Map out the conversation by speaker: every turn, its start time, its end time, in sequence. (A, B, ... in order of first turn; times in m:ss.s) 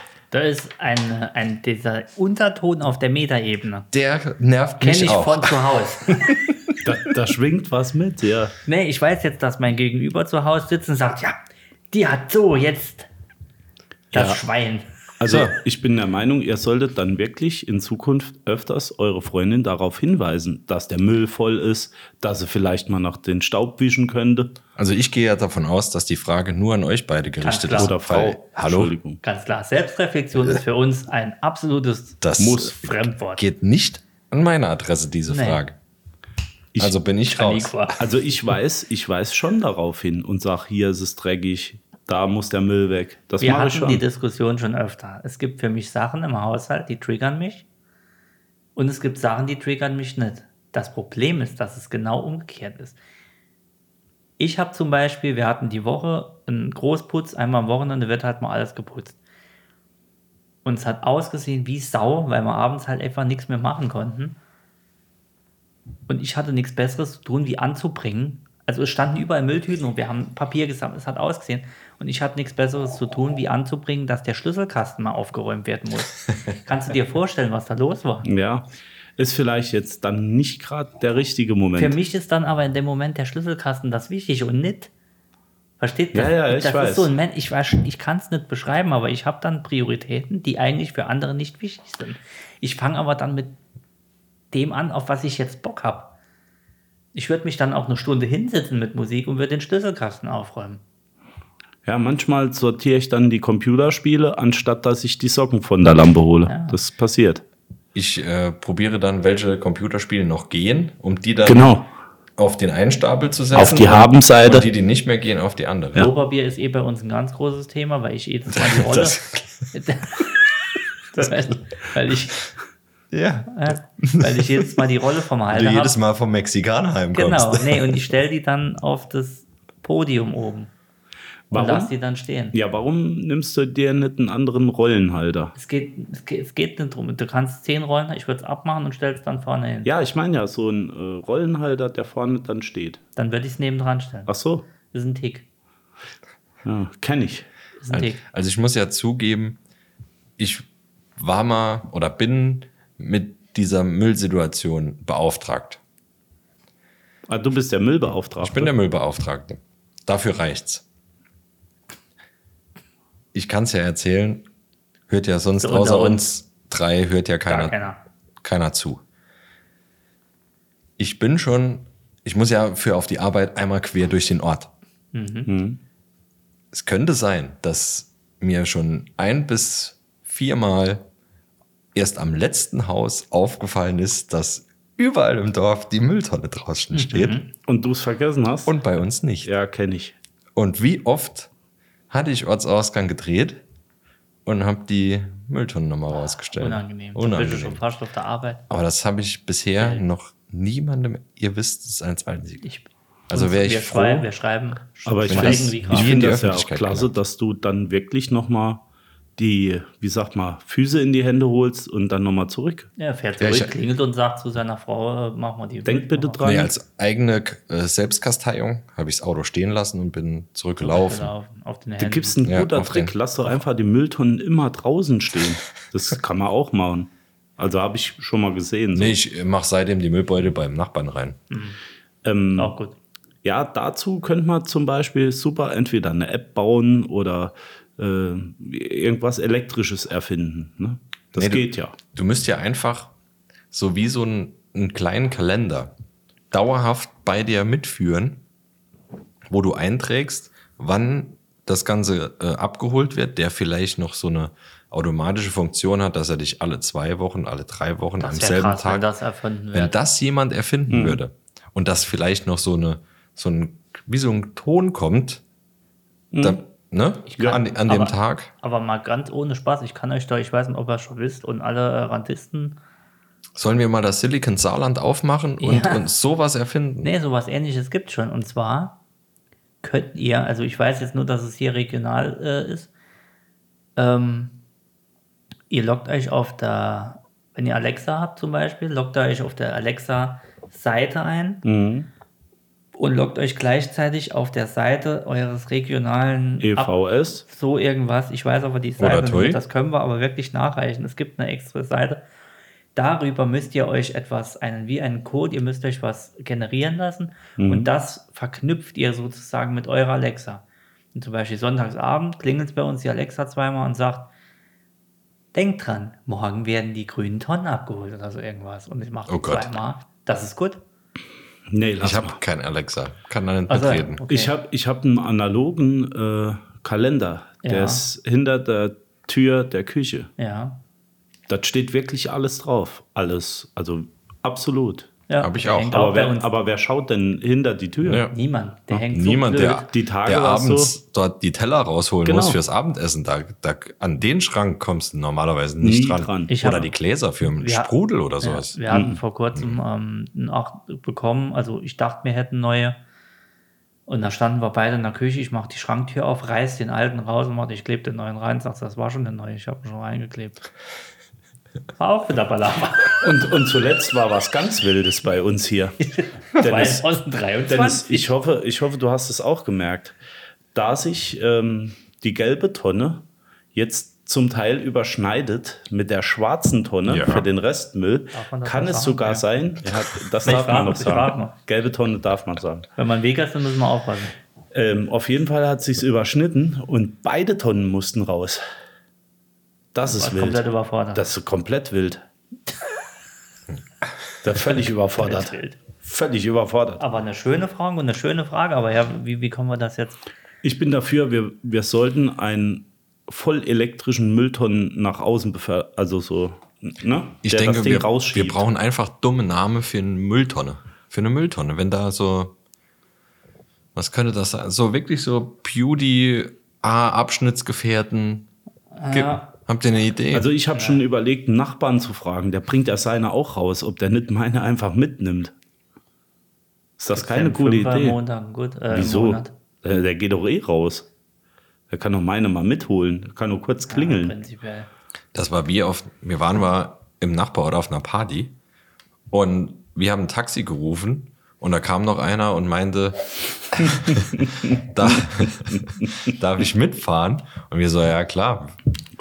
0:00.3-0:03.9 A
0:03.9-0:05.6 B
0:04.8-0:06.4 A
0:06.8-0:08.6 C
0:08.6-0:11.4 A
0:11.9-0:13.1 A
0:14.1-0:14.9 A
0:14.1-0:14.4 C
0:15.2-0:24.5 C
0:15.3-0:15.5 B
0:24.8-0:28.9 B
0:27.4-0:27.9 A
0:27.8-0:29.2 C
0:29.2-0:32.2 A
0:32.2-0:35.8 B
0:32.4-0:32.9 C
0:32.7-0:33.4 A
0:35.3-0:35.6 A
0:36.8-0:37.9 B
0:37.3-0:38.0 A
0:38.0-0:44.0 C
0:43.4-0:47.6 A
0:48.8-0:53.0 A
0:54.4-0:59.2 A
1:00.6-1:04.4 A
1:06.1-1:18.3 A
1:18.2-1:22.0 C
1:21.8-1:24.9 A
1:25.8-1:33.6 A
1:26.1-1:27.1 C
1:34.5-1:36.1 A
1:37.1-1:40.8 A
1:41.9-1:47.4 C
1:46.5-1:46.8 A
1:48.0-1:51.7 B
1:51.4-1:51.9 C
1:52.4-1:56.1 B
1:53.5-1:54.7 C
1:56.0-2:00.4 A
1:58.5-1:59.7 B
2:01.1-2:02.4 A
2:03.1-2:04.8 B
2:03.5-2:06.0 A
2:05.5-2:08.0 B
2:07.1-2:10.7 A
2:11.5-2:11.9 C
2:11.5-2:12.6 A
2:12.5-2:15.5 C
2:15.6-2:19.9 A
2:19.8-2:23.0 C
2:23.2-2:24.3 A
2:24.3-2:24.7 C
2:24.9-2:25.5 A
2:26.6-2:27.5 C
2:27.8-2:28.2 A
2:27.9-2:29.6 B
2:30.4-2:30.7 B
2:31.2-2:35.8 B
2:37.3-2:38.7 C
2:38.4-2:40.8 B
2:43.3-2:44.5 B
2:45.1-2:47.8 B
2:45.6-2:46.3 A
2:47.5-2:48.0 A
2:48.4-2:49.0 B
2:51.0-2:54.7 B
2:55.1-2:55.5 A
2:55.5-2:55.8 C
2:56.7-3:01.1 B
3:02.0-3:07.4 B
3:06.9-3:07.5 A
3:07.7-3:08.8 C
3:08.7-3:09.5 B
3:09.4-3:10.2 C
3:10.6-3:11.5 B
3:12.1-3:13.6 B
3:14.5-3:17.8 B
3:16.3-3:18.6 A
3:18.7-3:22.7 B
3:22.6-3:26.2 A
3:23.3-3:24.3 B
3:25.1-3:28.8 C
3:25.3-3:27.1 B
3:29.4-3:32.9 C
3:33.0-3:36.4 A
3:33.4-3:33.7 B
3:35.8-3:36.7 C
3:36.4-3:41.3 B
3:40.8-3:42.4 A
3:42.0-3:49.2 C
3:42.4-3:43.2 B
3:48.9-3:51.4 B
3:51.5-3:51.8 A
3:52.2-3:52.7 C
3:52.6-3:53.0 A
3:53.4-4:02.0 C
4:01.4-4:03.1 B
4:03.7-4:05.9 B
4:06.5-4:08.4 B
4:09.5-4:19.1 B
4:18.2-4:20.0 A
4:19.7-4:25.4 B
4:20.9-4:21.2 C
4:26.3-4:26.6 C
4:26.4-4:28.5 B
4:27.3-4:32.8 A
4:33.6-4:37.1 B
4:35.6-4:36.1 A
4:37.0-4:39.0 A
4:39.8-4:42.9 A
4:44.0-4:44.6 A
4:45.7-4:51.6 A
4:51.6-4:52.1 C
4:53.0-4:56.9 A
4:56.6-4:57.4 C
4:57.4-5:02.2 A
4:59.0-4:59.6 B
5:03.0-5:10.6 A
5:07.6-5:07.9 C
5:11.1-5:14.3 A
5:15.5-5:20.8 A
5:19.3-5:19.7 B
5:21.7-5:22.4 C
5:22.0-5:24.2 B
5:23.7-5:24.5 A
5:24.3-5:30.3 C
5:27.6-5:28.0 A
5:30.4-5:30.8 A
5:31.5-5:35.1 C
5:35.3-5:36.5 A
5:35.4-5:35.9 B
5:35.9-5:38.2 C
5:38.0-5:38.4 B
5:38.3-5:39.9 A
5:39.1-5:49.8 B
5:39.9-5:41.0 C
5:42.2-5:42.6 C
5:45.8-5:46.6 C
5:46.5-5:46.9 A
5:47.6-5:53.0 A
5:48.9-5:49.2 C
5:54.1-6:00.6 A
6:02.0-6:03.2 A
6:03.2-6:06.0 C
6:06.0-6:08.3 A
6:06.6-6:07.0 C
6:07.7-6:10.2 C
6:10.8-6:13.2 C
6:13.8-6:22.9 C
6:17.1-6:17.5 B
6:18.3-6:19.4 A
6:20.4-6:21.5 A
6:23.0-6:24.4 A
6:24.7-6:28.6 C
6:29.9-6:32.2 C
6:30.1-6:31.2 A
6:34.4-6:37.0 C
6:35.2-6:35.8 A
6:37.0-6:40.2 A
6:40.6-6:48.6 C
6:47.4-6:52.6 B
6:54.0-6:58.5 B
6:59.0-6:59.5 A
6:59.1-7:00.5 B
7:00.3-7:05.5 C
7:00.7-7:01.0 A
7:07.0-7:08.2 C
7:07.1-7:09.5 A
7:08.9-7:11.1 C
7:11.9-7:14.4 C
7:13.9-7:14.9 A
7:15.3-7:18.6 B
7:19.3-7:28.8 B